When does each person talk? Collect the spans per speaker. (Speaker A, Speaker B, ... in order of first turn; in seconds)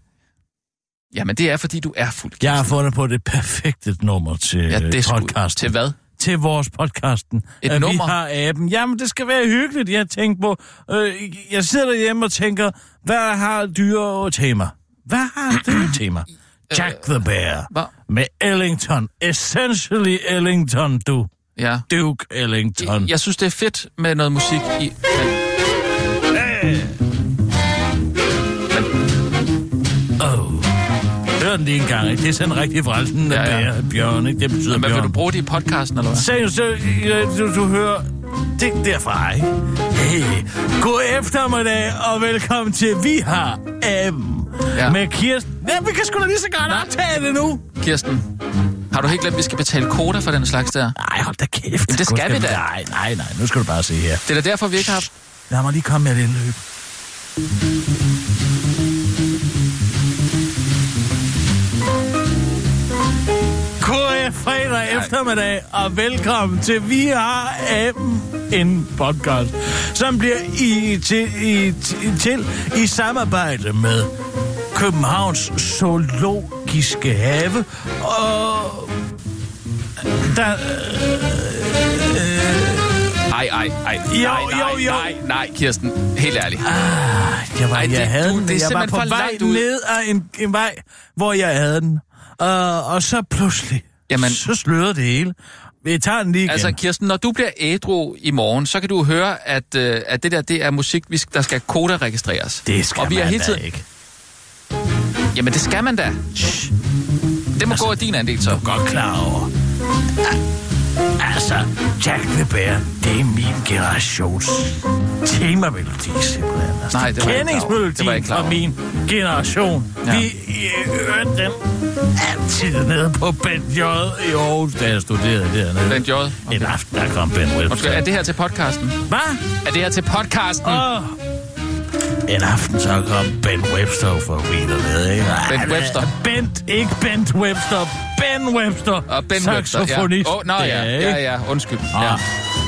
Speaker A: 1.1-2.7, 4.7-6.0, 7.6-8.2, 16.7-17.1, 21.6-21.9, 22.8-25.4, 33.3-33.7, 34.7-36.3, 44.7-45.0, 47.8-48.2, 48.9-51.0, 51.9-52.6, 54.3-55.1, 83.3-86.7, 87.7-89.7, 94.1-94.5, 96.5-103.6, 105.3-106.2, 107.5-108.6, 116.9-118.6, 120.0-120.3, 125.9-126.7, 127.7-129.0, 129.6-130.8, 135.5-136.1, 139.1-142.2
Speaker B: 2.4-21.3, 21.9-23.1, 26.3-27.0, 30.2-30.8, 31.4-35.2, 36.1-47.7, 51.0-54.2, 54.8-56.6, 63.8-74.1, 74.7-79.0, 80.2-83.2, 84.1-85.1, 86.6-96.8, 102.7-103.8, 106.3-106.7, 107.7-109.5, 111.2-128.1, 129.1-129.4, 130.6-131.2, 132.2-141.2, 141.9-142.2